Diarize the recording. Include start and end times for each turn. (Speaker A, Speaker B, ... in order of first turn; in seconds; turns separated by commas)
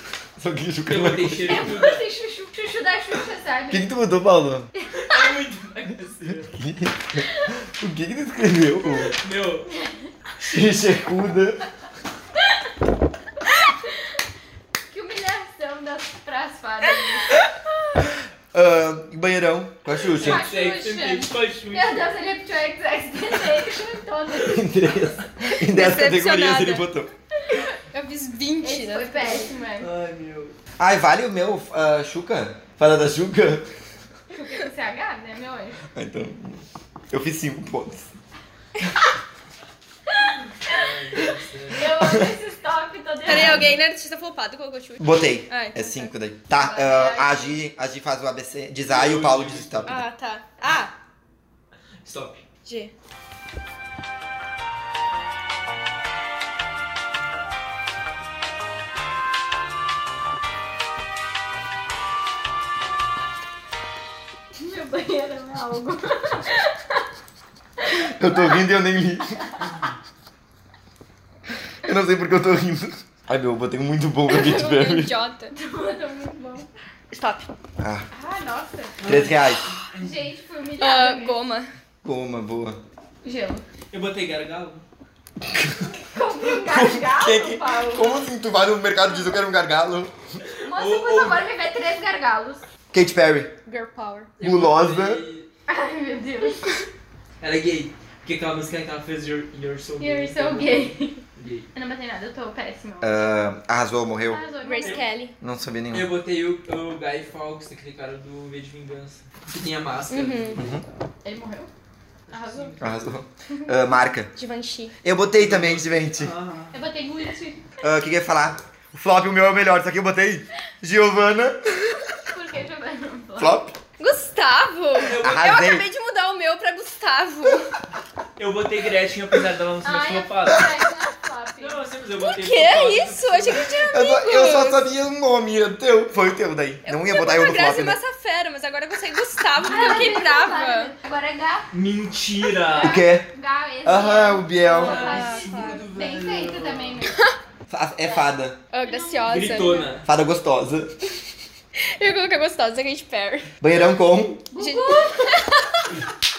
Speaker A: 0.4-1.8, Speaker B: 0.8-2.0, Speaker C: 1.4-3.9, Speaker A: 3.7-4.7, Speaker C: 4.8-5.2, Speaker B: 4.9-6.6, Speaker A: 6.5-9.2, Speaker B: 9.2-9.7, Speaker C: 9.7-10.1, Speaker A: 10.4-11.6, Speaker C: 14.9-17.4, Speaker A: 18.5-20.5, Speaker B: 20.1-22.1, Speaker C: 20.2-25.1, Speaker A: 24.4-27.1, Speaker D: 25.4-26.9, Speaker D: 27.9-29.4, Speaker C: 28.6-29.9, Speaker B: 29.8-30.5, Speaker A: 30.8-33.6, Speaker C: 34.3-35.8, Speaker A: 35.9-38.1, Speaker B: 40.6-42.0, Speaker C: 41.7-43.7, Speaker A: 42.0-42.3, Speaker D: 43.2-46.1, Speaker A: 45.0-50.0, Speaker C: 46.5-47.5, Speaker B: 48.9-50.0, Speaker D: 49.9-50.9, Speaker B: 52.0-52.4, Speaker D: 52.6-52.9, Speaker C: 64.5-67.0, Speaker C: 67.8-68.6, Speaker A: 67.9-69.5, Speaker C: 69.3-69.8, Speaker A: 71.8-75.2, Speaker D: 74.3-75.5, Speaker C: 75.5-76.7, Speaker D: 77.1-77.5, Speaker A: 77.8-78.1, Speaker C: 78.1-79.0, Speaker B: 79.0-80.2, Speaker A: 79.0-79.7, Speaker C: 80.0-81.4, Speaker D: 80.8-81.7, Speaker A: 82.0-82.8, Speaker C: 83.2-83.6, Speaker B: 83.9-84.8, Speaker A: 85.4-90.1, Speaker C: 86.0-88.2, Speaker B: 90.5-91.5, Speaker C: 90.6-92.6, Speaker A: 92.9-93.5, Speaker D: 93.7-94.3, Speaker B: 94.4-95.5, Speaker A: 94.4-95.2, Speaker C: 95.7-96.8, Speaker B: 97.4-101.7, Speaker C: 100.0-101.2, Speaker C: 101.7-103.2, Speaker A: 103.0-104.4, Speaker C: 104.3-105.0, Speaker D: 104.6-105.3, Speaker A: 105.4-106.1, Speaker B: 105.9-110.7, Speaker D: 110.1-110.7, Speaker A: 110.5-110.8, Speaker C: 111.2-111.7, Speaker C: 112.3-112.8, Speaker B: 112.3-113.1, Speaker A: 112.8-114.3, Speaker D: 114.3-114.9, Speaker A: 115.0-116.3, Speaker B: 115.4-116.7, Speaker C: 116.7-117.6, Speaker A: 117.8-122.1, Speaker C: 122.3-123.6, Speaker A: 123.4-123.8, Speaker D: 124.0-127.7, Speaker B: 125.0-125.5, Speaker A: 125.1-125.9, Speaker B: 128.4-130.7, Speaker C: 129.8-131.8, Speaker B: 131.6-133.8, Speaker D: 132.2-134.9, Speaker A: 133.9-138.0, Speaker D: 136.8-140.9, Speaker C: 139.6-141.7, Speaker B: 141.7-143.0, Speaker C: 142.5-147.2, Speaker A: 142.8-143.3, Speaker A: 143.8-145.1, Speaker B: 144.7-147.0, Speaker D: 144.9-145.8, Speaker A: 147.7-148.6, Speaker D: 148.7-149.8, Speaker C: 148.8-149.9, Speaker B: 149.3-150.1, Speaker A: 150.0-151.1, Speaker D: 151.8-153.5, Speaker A: 153.6-154.4, Speaker C: 154.5-155.4, Speaker D: 154.5-155.9